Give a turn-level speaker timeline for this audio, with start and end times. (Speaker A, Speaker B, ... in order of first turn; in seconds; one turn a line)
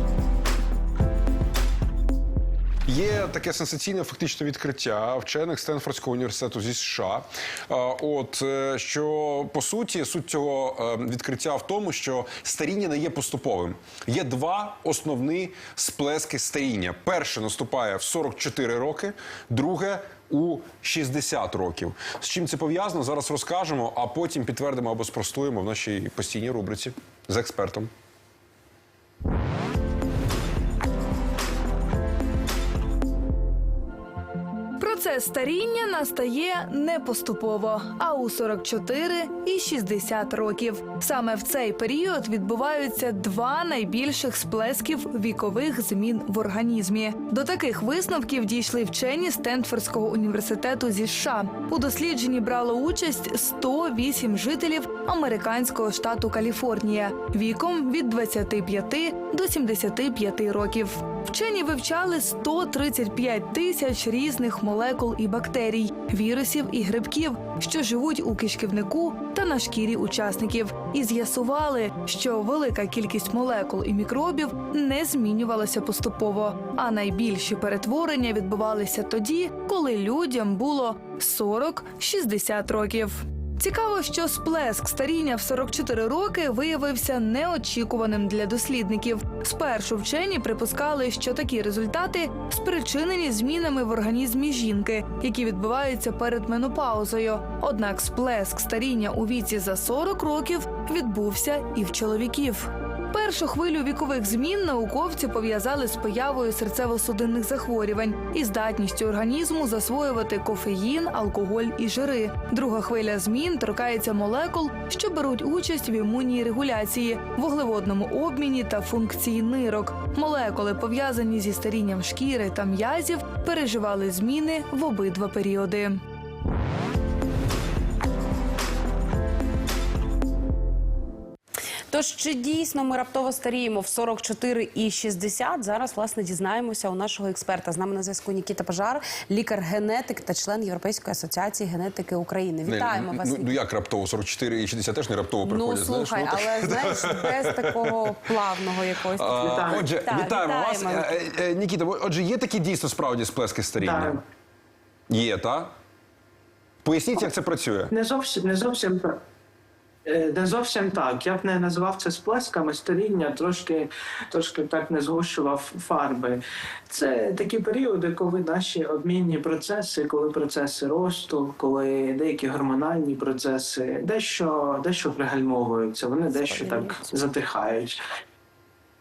Speaker A: 2.9-27.9
Speaker B: 34.8-125.9
Speaker C: 131.9-143.6
Speaker A: 142.7-148.1
Speaker C: 145.4-151.1
Speaker A: 149.1-154.2
Speaker D: 149.4-149.9
Speaker D: 153.8-154.2
Speaker A: 155.1-155.7
Speaker A: 156.8-157.9
Speaker D: 157.9-159.2
Speaker D: 160.0-178.0
Speaker C: 176.3-177.1